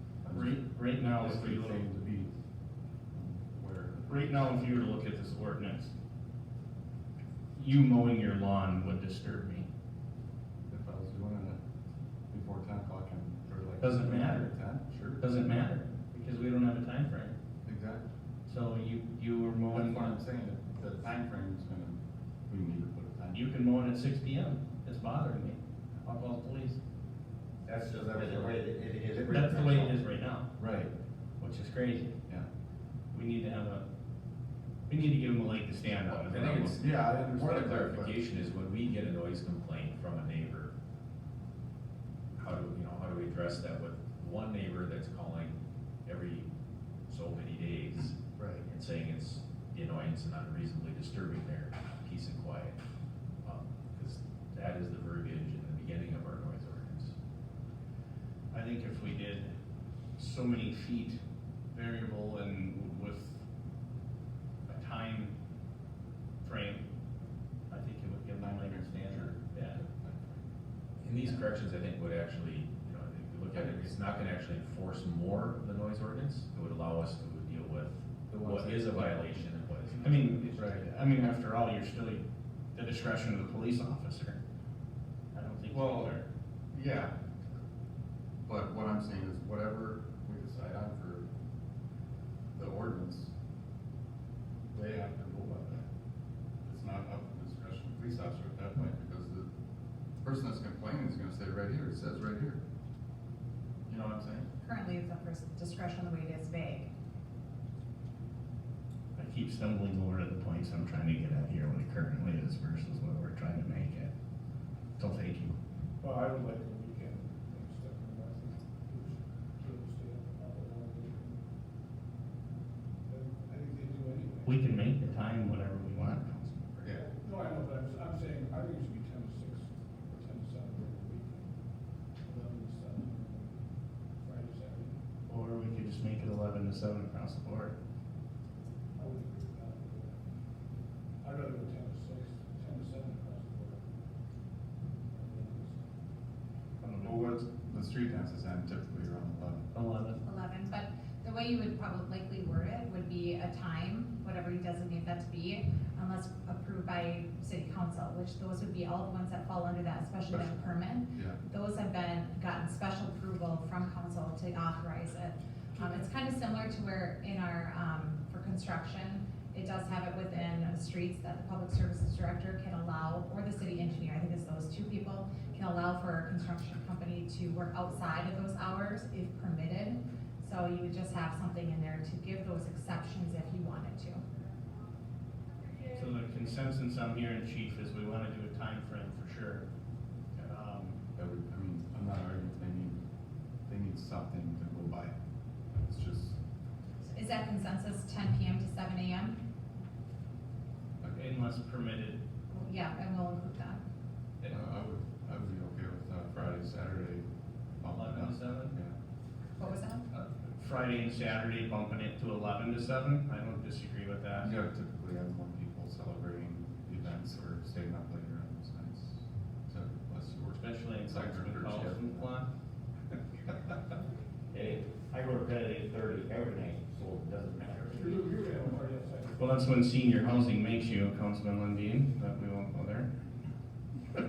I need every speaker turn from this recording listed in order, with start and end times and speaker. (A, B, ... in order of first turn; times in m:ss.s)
0:00.2-0:02.3 A
0:00.3-0:01.8 B
0:03.1-0:04.3 A
0:04.1-0:05.9 B
0:07.5-0:09.7 B
0:10.7-0:11.6 A
0:12.3-0:15.2 A
0:13.8-0:14.5 B
0:15.2-0:17.4 B
0:17.6-0:18.0 A
0:18.4-0:20.2 B
0:19.7-0:23.5 A
0:23.3-0:26.8 B
0:27.6-0:30.0 C
0:29.2-0:30.5 B
0:30.6-0:30.9 A
0:31.4-0:32.1 B
0:33.1-0:33.8 B
0:34.9-0:36.8 B
0:35.9-0:40.7 D
0:36.8-0:38.2 A
0:42.4-0:45.5 D
0:46.0-0:46.5 D
0:47.1-0:52.8 D
0:48.4-0:48.6 A
0:53.4-0:57.1 D
0:58.5-0:59.5 B
1:00.2-1:01.2 B
1:01.7-1:03.4 B
1:04.6-1:05.3 B
1:06.4-1:06.8 B
1:07.7-1:09.8 B
1:08.4-1:10.4 A
1:11.0-1:20.9 D
1:18.3-1:19.2 A
1:20.0-1:22.2 B
1:20.5-1:20.8 A
1:22.7-1:24.4 B
1:25.3-1:26.2 B
1:25.7-1:26.1 A
1:26.7-1:27.1 A
1:28.4-1:31.2 A
1:32.5-1:33.3 A
1:34.7-1:35.8 A
1:36.6-1:39.5 A
1:40.2-1:42.6 A
1:43.9-1:44.5 A
1:44.6-1:46.9 E
1:49.1-1:54.1 B
1:55.0-1:55.5 B
1:56.0-2:01.4 F
2:03.1-2:04.6 F
2:04.4-2:06.8 B
2:06.9-2:11.5 F
2:12.2-2:13.6 F
2:14.2-2:15.0 F
2:15.3-2:17.7 B
2:19.0-2:20.2 F
2:21.2-2:23.8 F
2:25.1-2:25.8 F
2:26.8-2:27.3 B
2:27.0-2:29.7 A
2:29.7-2:30.2 B
2:30.2-3:04.2 E
2:40.3-2:41.4 A
3:05.9-3:09.6 B
3:10.3-3:11.0 B
3:11.1-3:13.0 A
3:13.7-3:15.1 A
3:15.8-3:16.4 A
3:17.0-3:19.4 E
3:21.1-3:22.2 B
3:22.5-3:23.8 E
3:24.4-3:27.2 A
3:27.8-3:28.9 A
3:27.9-3:28.8 B
3:29.6-3:30.0 E
3:30.1-3:34.5 B
3:34.4-3:42.1 A
3:40.6-3:42.5 B
3:44.5-3:48.2 C
3:47.9-3:49.6 F
3:49.4-3:53.1 B